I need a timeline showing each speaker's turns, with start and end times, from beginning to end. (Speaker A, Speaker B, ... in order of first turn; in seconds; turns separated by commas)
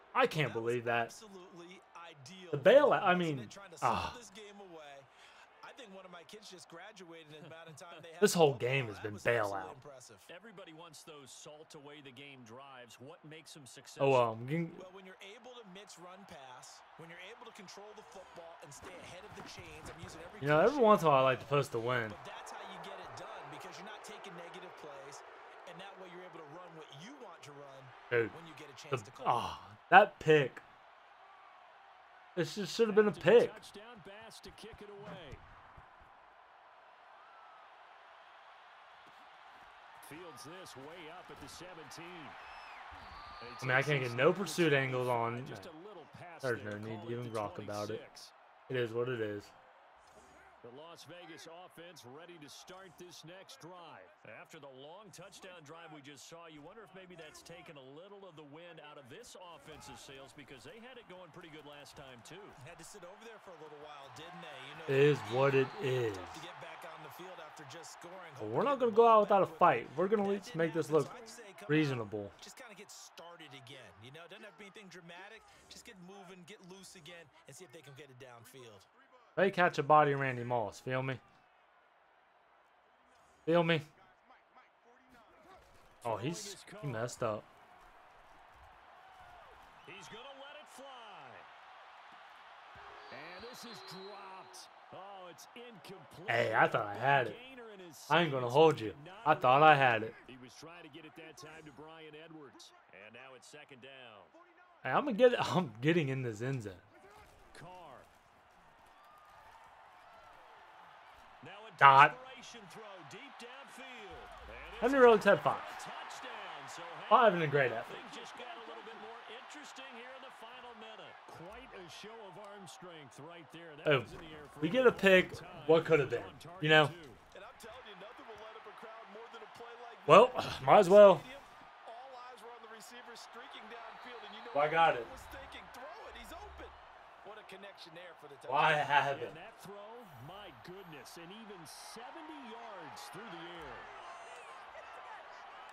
Speaker A: 0.1-1.1, Speaker B: 0.4-5.1, Speaker A: 2.5-4.2, Speaker B: 5.6-10.3, Speaker A: 8.2-9.8, Speaker C: 10.3-14.3, Speaker A: 14.0-14.9, Speaker B: 14.7-29.6, Speaker A: 20.4-22.2, Speaker A: 28.1-28.4, Speaker A: 28.9-30.6, Speaker A: 32.4-33.6, Speaker C: 32.9-35.4, Speaker C: 40.0-42.4, Speaker C: 43.4-48.3, Speaker A: 43.6-45.7, Speaker A: 46.4-48.0, Speaker A: 48.7-49.5, Speaker C: 50.6-62.6, Speaker B: 62.6-78.9, Speaker A: 64.9-66.5, Speaker A: 68.4-72.3, Speaker A: 79.4-81.2, Speaker A: 83.5-83.9, Speaker C: 86.0-87.2, Speaker A: 86.0-87.5, Speaker C: 89.8-91.5, Speaker C: 93.1-104.3, Speaker A: 96.3-97.4, Speaker A: 98.1-100.2, Speaker A: 104.8-106.8, Speaker C: 107.5-108.1, Speaker C: 111.4-127.2, Speaker A: 111.8-112.2, Speaker A: 114.8-115.8, Speaker A: 117.1-118.1, Speaker A: 123.8-127.0, Speaker B: 127.3-138.9, Speaker A: 130.1-131.3, Speaker A: 134.5-135.1, Speaker A: 138.5-139.4, Speaker C: 139.1-143.9